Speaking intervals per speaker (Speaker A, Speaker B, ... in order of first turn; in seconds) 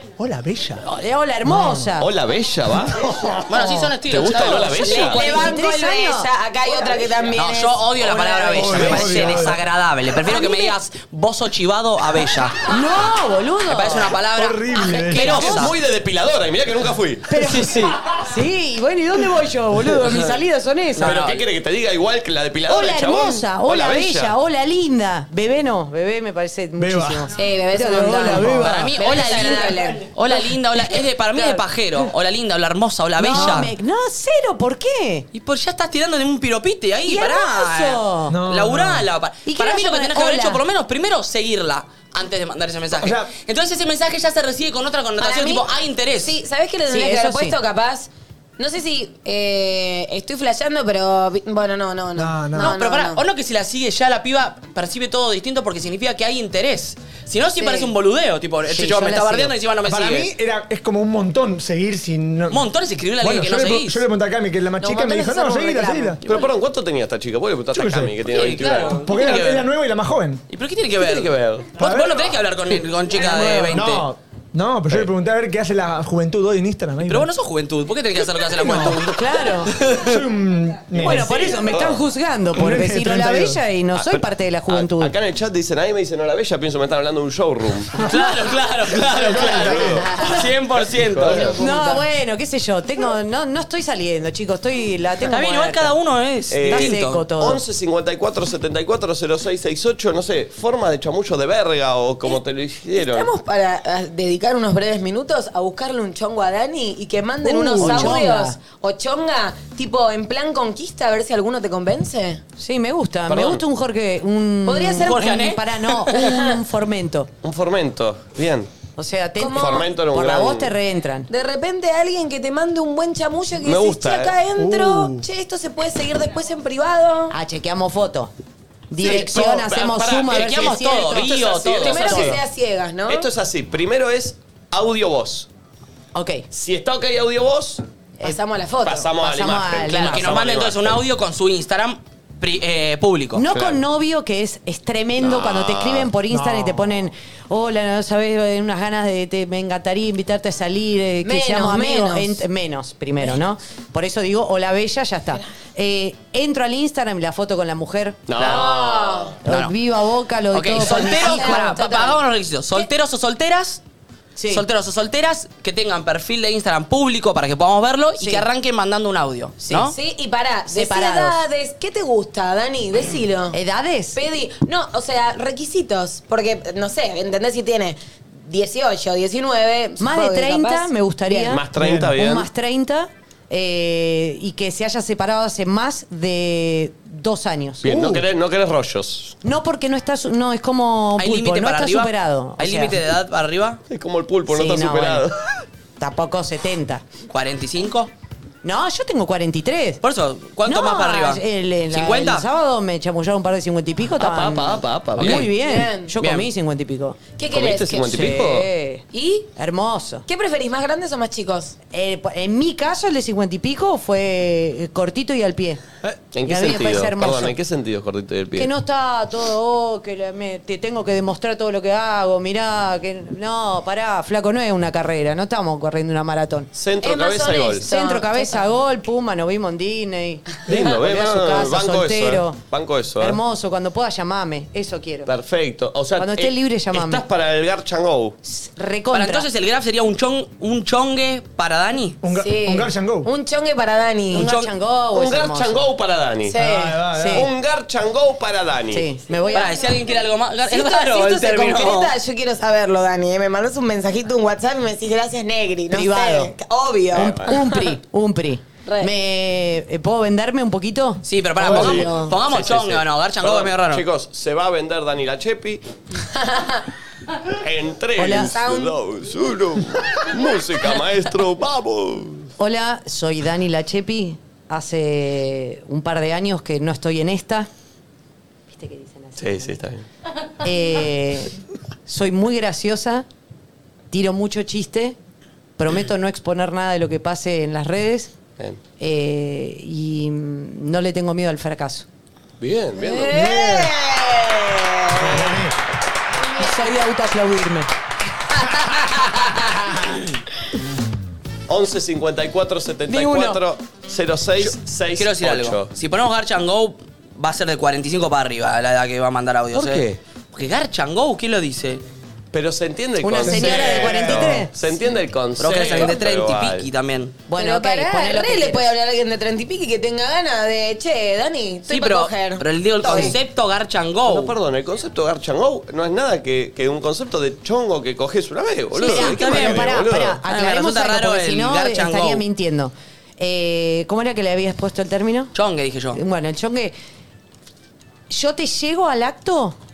Speaker A: 0.2-0.8, 1.4-1.9, 8.2-9.6, 14.3-15.5, 26.8-27.3, 28.0-28.9, 38.3-39.0, 43.0-43.3, 52.2-52.7, 59.9-62.6, 63.2-66.2, 67.7-68.2, 68.8-70.4, 71.8-72.3, 73.2-77.3, 78.5-79.0, 80.0-81.5, 82.5-83.6, 89.0-90.1, 107.5-108.1, 124.6-125.2, 146.3-146.9, 181.7-182.1, 187.9-188.2, 242.2-243.3, 246.6-247.5, 293.3-293.9, 295.2-295.8, 313.4-314.6
Speaker B: 0.8-2.1, 5.1-6.3, 10.3-10.7, 12.7-14.1, 18.2-21.2, 22.7-28.7, 31.2-31.6, 33.2-35.3, 37.1-38.4, 39.5-40.6, 46.9-47.5, 58.6-59.5, 79.0-79.7, 81.0-85.1, 91.6-95.9, 96.6-97.6, 107.7-108.6, 112.6-117.3, 119.0-121.3, 127.3-128.3, 128.9-131.3, 136.1-136.4, 139.2-140.4, 143.3-158.4, 159.4-161.8, 164.4-164.7, 168.2-168.4, 170.7-171.4, 173.5-174.2, 180.0-187.9, 189.4-193.0, 194.5-195.2, 196.0-197.0, 198.6-200.0, 200.6-207.2, 208.1-209.0, 209.6-210.2, 211.9-215.8, 216.4-217.6, 218.5-226.7, 227.8-232.6, 233.2-235.3, 236.2-237.2, 238.4-239.5, 244.3-245.8, 247.1-247.5, 248.9-249.8, 255.9-256.5, 257.1-261.2, 268.2-268.5, 272.6-277.7, 278.7-279.8, 280.6-281.5, 282.1-283.2, 284.1-285.2, 285.8-288.3, 289.0-292.1, 296.6-297.9, 303.1-303.6, 313.2-314.7, 317.5-318.9, 329.0-335.5, 336.1-336.9, 338.3-339.8
Speaker C: 2.0-3.1, 4.1-5.3, 15.2-17.3, 21.0-24.3, 66.2-69.0, 71.0-71.8, 81.0-82.0, 83.9-88.0, 89.4-91.6, 96.5-103.3, 113.3-113.6, 117.4-118.7, 119.5-120.7, 123.6-124.4, 129.1-129.4, 130.3-132.4, 133.1-135.5, 136.5-137.8, 138.8-141.0, 143.5-143.8, 145.2-146.1, 158.3-159.3, 181.5-182.5, 187.8-189.3, 193.9-195.4, 204.2-205.4, 207.5-208.7, 216.3-218.7, 226.7-227.8, 230.7-233.4, 235.2-238.3, 245.1-246.6, 247.3-249.1, 257.1-257.5, 261.6-265.8, 267.6-272.5, 279.4-280.1, 292.6-293.4, 301.7-305.9, 309.7-310.2, 312.5-316.9, 323.1-323.3, 324.3-330.4
Speaker D: 3.5-5.5, 7.3-12.6, 13.7-15.7, 17.3-18.0, 21.0-21.4, 28.6-33.7, 35.3-46.4, 52.5-60.3, 62.5-64.0, 68.3-69.7, 70.5-74.1, 77.0-80.2, 88.0-91.5, 95.3-97.2, 115.0-116.3, 129.0-132.4, 139.8-143.4, 159.4-159.7, 160.5-163.8, 164.5-169.9, 191.2-193.8, 197.3-198.1, 200.0-202.4, 205.2-205.5, 206.2-206.5, 239.1-242.2, 244.3-244.7, 249.5-252.1, 261.2-264.1, 304.6-312.0, 315.6-317.3, 321.9-324.5, 329.0-332.4, 335.5-336.2
Speaker E: 4.8-8.8, 27.3-30.0, 45.2-53.2, 57.6-57.9, 64.8-66.2, 90.0-90.5, 91.3-92.0, 102.9-112.4, 114.7-115.2, 116.1-116.5, 119.4-119.9, 121.3-127.3, 131.8-133.3, 138.2-139.1, 151.2-152.4, 158.4-159.3, 160.8-162.2, 169.7-173.6, 174.1-181.6, 205.6-206.1, 207.4-208.3, 209.1-209.5, 210.3-211.8, 227.0-228.6, 242.3-244.5, 246.5-247.0, 250.7-257.9, 261.6-262.4, 266.3-266.8, 268.2-268.9, 293.0-295.5, 317.6-323.3